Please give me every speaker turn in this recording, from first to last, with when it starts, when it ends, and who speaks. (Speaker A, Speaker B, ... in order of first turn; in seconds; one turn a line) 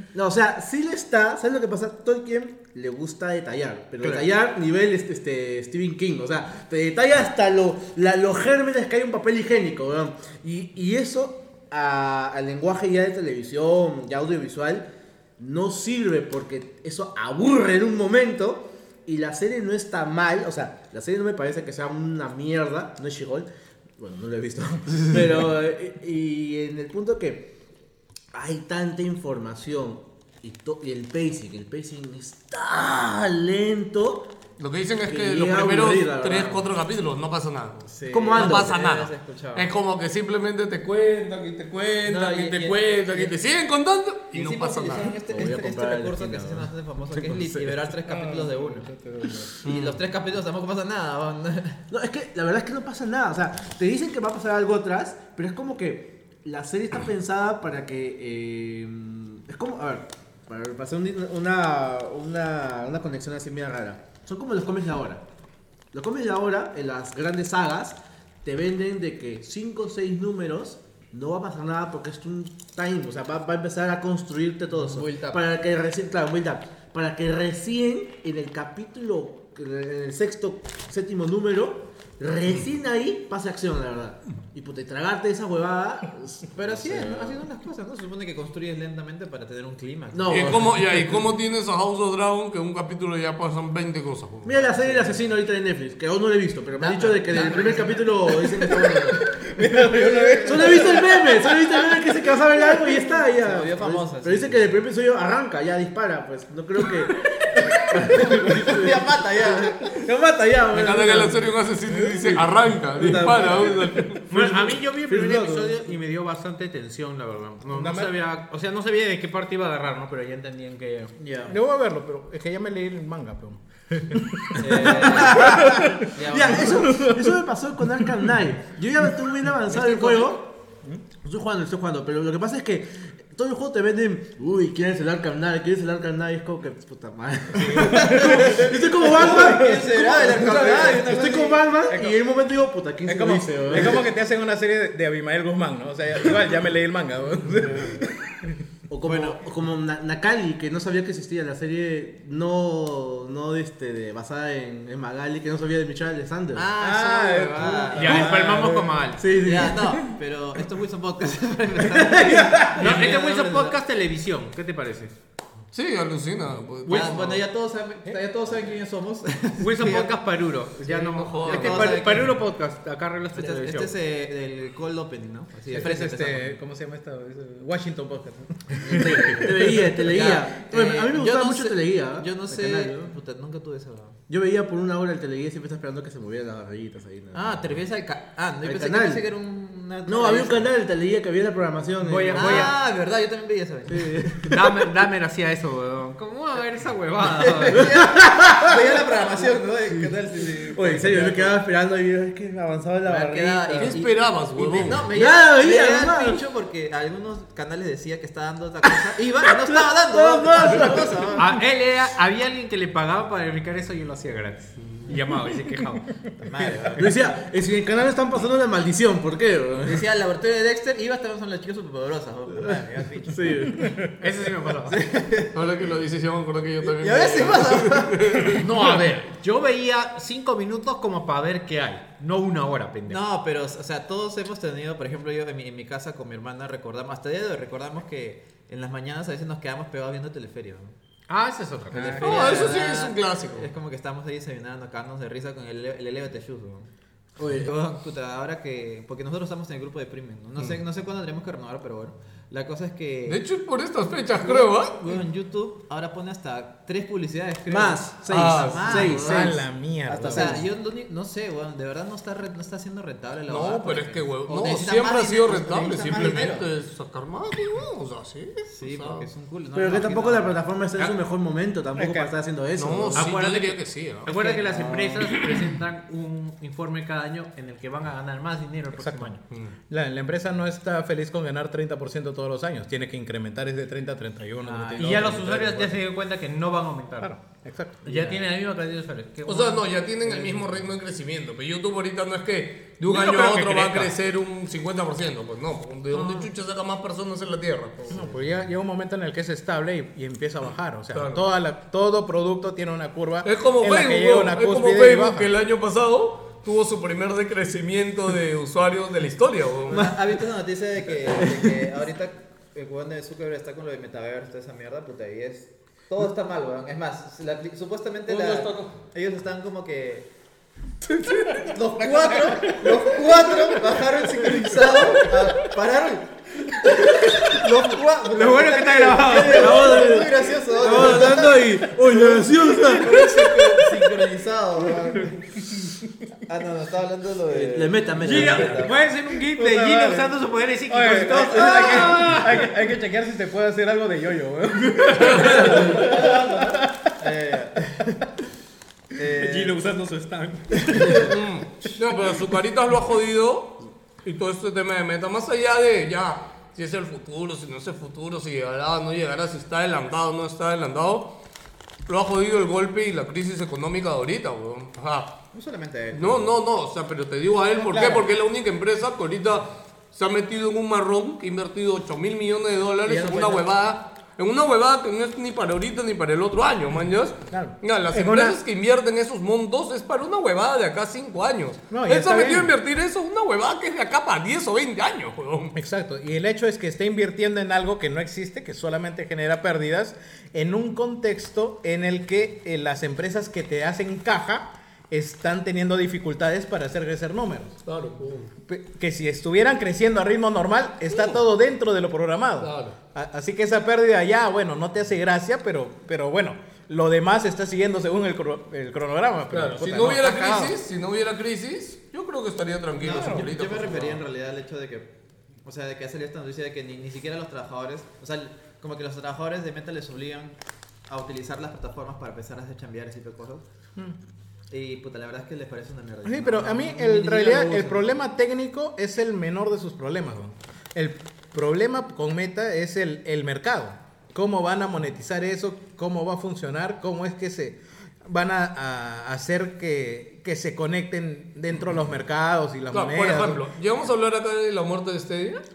Speaker A: 0.1-14.9
Speaker B: 4.0-4.3
Speaker A: 15.4-27.5
Speaker A: 28.3-34.3
Speaker C: 34.6-45.2
Speaker A: 35.0-36.7
Speaker A: 37.9-38.8
Speaker D: 38.0-39.7
Speaker D: 42.0-43.4
Speaker D: 44.3-48.9
Speaker A: 45.3-47.7
Speaker E: 48.0-49.5
Speaker D: 49.6-51.8
Speaker C: 49.6-50.0
Speaker A: 51.9-65.2
Speaker A: 65.9-87.4
Speaker D: 86.5-90.6
Speaker A: 90.1-91.1
Speaker C: 90.3-95.0
Speaker A: 94.4-99.2
Speaker D: 94.8-95.1
Speaker D: 96.8-98.1
Speaker E: 99.3-101.7
Speaker A: 99.8-109.1
Speaker D: 99.9-101.2
Speaker D: 103.0-104.8
Speaker D: 108.2-110.0
Speaker A: 109.8-111.6
Speaker C: 110.7-114.3
Speaker A: 112.1-112.4
Speaker A: 113.0-115.8
Speaker D: 113.0-113.7
Speaker B: 114.3-121.1
Speaker E: 117.7-118.2
Speaker D: 121.2-121.5
Speaker E: 121.5-126.1
Speaker D: 124.6-127.1
Speaker A: 124.7-130.6
Speaker E: 126.7-127.4
Speaker D: 129.7-130.3
Speaker A: 131.2-144.0
Speaker E: 137.5-142.2
Speaker D: 137.7-141.7
Speaker E: 143.1-148.6
Speaker A: 148.9-156.7
Speaker D: 156.6-158.6
Speaker E: 156.8-158.9
Speaker B: 157.9-159.2
Speaker A: 158.1-160.2
Speaker D: 159.4-163.8
Speaker A: 161.9-163.0
Speaker B: 162.7-165.1
Speaker C: 165.7-167.4
Speaker B: 166.8-167.3
Speaker D: 166.9-170.2
Speaker B: 169.6-173.9
Speaker C: 170.8-172.0
Speaker D: 171.4-172.3
Speaker D: 173.3-176.6
Speaker E: 175.7-179.4
Speaker D: 178.7-184.2
Speaker A: 178.8-183.2
Speaker A: 184.3-187.8
Speaker D: 187.3-190.7
Speaker A: 188.6-189.2
Speaker A: 190.1-192.8
Speaker B: 192.0-192.7
Speaker D: 192.4-194.4
Speaker A: 193.9-194.7
Speaker B: 194.5-197.9
Speaker D: 197.2-201.6
Speaker A: 197.8-199.0
Speaker A: 200.7-204.0
Speaker D: 203.0-211.5
Speaker C: 203.8-205.1
Speaker A: 204.9-206.4
Speaker A: 209.4-211.3
Speaker B: 211.4-216.1
Speaker D: 216.4-217.4
Speaker A: 216.9-220.1
Speaker D: 219.9-223.7
Speaker A: 222.5-223.9
Speaker E: 223.8-224.1
Speaker B: 224.2-225.0
Speaker D: 224.9-225.5
Speaker C: 225.5-228.6
Speaker D: 226.8-228.7
Speaker B: 228.5-233.2
Speaker D: 233.1-241.0
Speaker B: 241.3-242.4
Speaker E: 241.9-242.6
Speaker D: 241.9-246.9
Speaker C: 242.2-243.7
Speaker A: 247.4-247.7
Speaker D: 247.4-253.4
Speaker C: 253.3-255.1
Speaker D: 254.4-266.7
Speaker A: 257.7-259.6
Speaker C: 258.3-259.2
Speaker E: 259.1-260.6
Speaker A: 260.3-260.6
Speaker C: 263.5-269.3
Speaker D: 268.7-270.6
Speaker A: 269.7-273.3
Speaker E: 272.0-272.3
Speaker C: 272.8-274.3
Speaker B: 273.1-279.4
Speaker D: 274.3-274.8
Speaker A: 274.6-275.2
Speaker E: 278.9-279.3
Speaker E: 279.9-286.0
Speaker B: 284.6-287.3
Speaker E: 287.2-288.4
Speaker B: 288.1-290.7
Speaker C: 289.5-298.4
Speaker B: 293.1-294.1
Speaker E: 298.1-305.5
Speaker C: 301.1-301.4
Speaker C: 303.4-310.1
Speaker D: 309.9-320.3
Speaker A: 311.4-311.7
Speaker C: 318.3-319.0
Speaker D: 321.6-331.8
Speaker E: 322.0-323.6
Speaker E: 324.6-324.9
Speaker B: 328.3-330.2
Speaker A: 329.4-333.2
Speaker E: 332.1-333.9
Speaker D: 332.9-335.6
Speaker D: 336.5-339.0
Speaker A: 337.5-338.9
Speaker B: 338.2-342.6
Speaker E: 339.5-340.4
Speaker E: 340.9-347.0
Speaker D: 341.2-342.4
Speaker D: 345.3-348.0
Speaker D: 349.2-349.8
Speaker B: 349.4-351.2
Speaker C: 351.0-361.3
Speaker C: 362.1-365.4
Speaker D: 365.5-366.5
Speaker C: 366.1-385.8
Speaker D: 367.8-368.2
Speaker D: 373.1-373.7
Speaker E: 377.5-378.6
Speaker E: 381.9-382.7
Speaker E: 385.7-397.8
Speaker C: 397.9-398.5
Speaker E: 398.6-410.8
Speaker C: 401.1-401.4
Speaker C: 402.6-402.9
Speaker C: 409.5-414.2
Speaker D: 413.0-415.1
Speaker E: 413.1-413.5
Speaker D: 415.6-420.6
Speaker D: 421.1-423.6
Speaker D: 424.7-428.1
Speaker E: 426.2-443.6
Speaker C: 442.9-445.6